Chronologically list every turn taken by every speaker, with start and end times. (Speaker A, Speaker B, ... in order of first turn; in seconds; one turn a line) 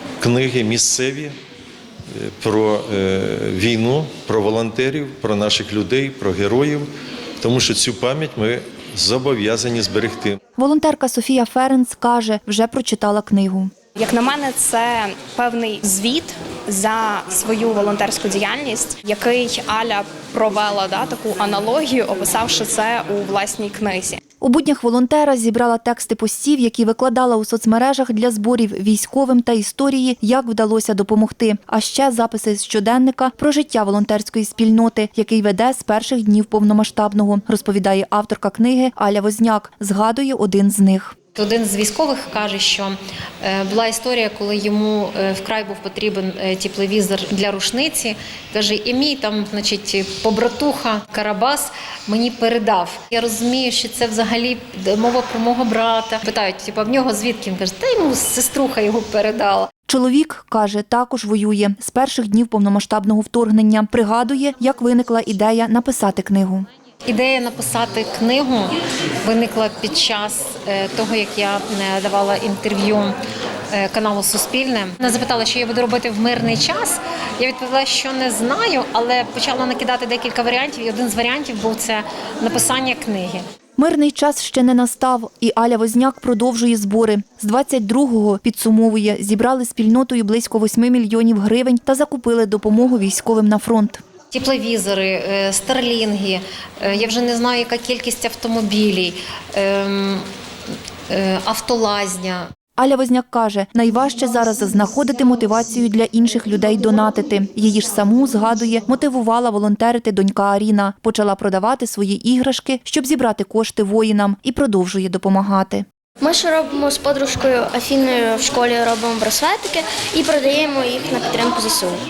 Speaker A: 0.2-1.3
Speaker A: 2.1-6.9
Speaker A: 7.4-10.3
Speaker B: 10.6-13.7
Speaker C: 14.0-24.2
Speaker B: 24.4-41.1
Speaker D: 41.3-59.7
Speaker B: 59.9-66.7
Speaker D: 67.0-73.2
Speaker D: 73.7-83.4
Speaker B: 83.8-94.0
Speaker D: 94.3-100.2
Speaker D: 101.1-102.5
Speaker B: 102.8-115.8
Speaker E: 116.2-122.0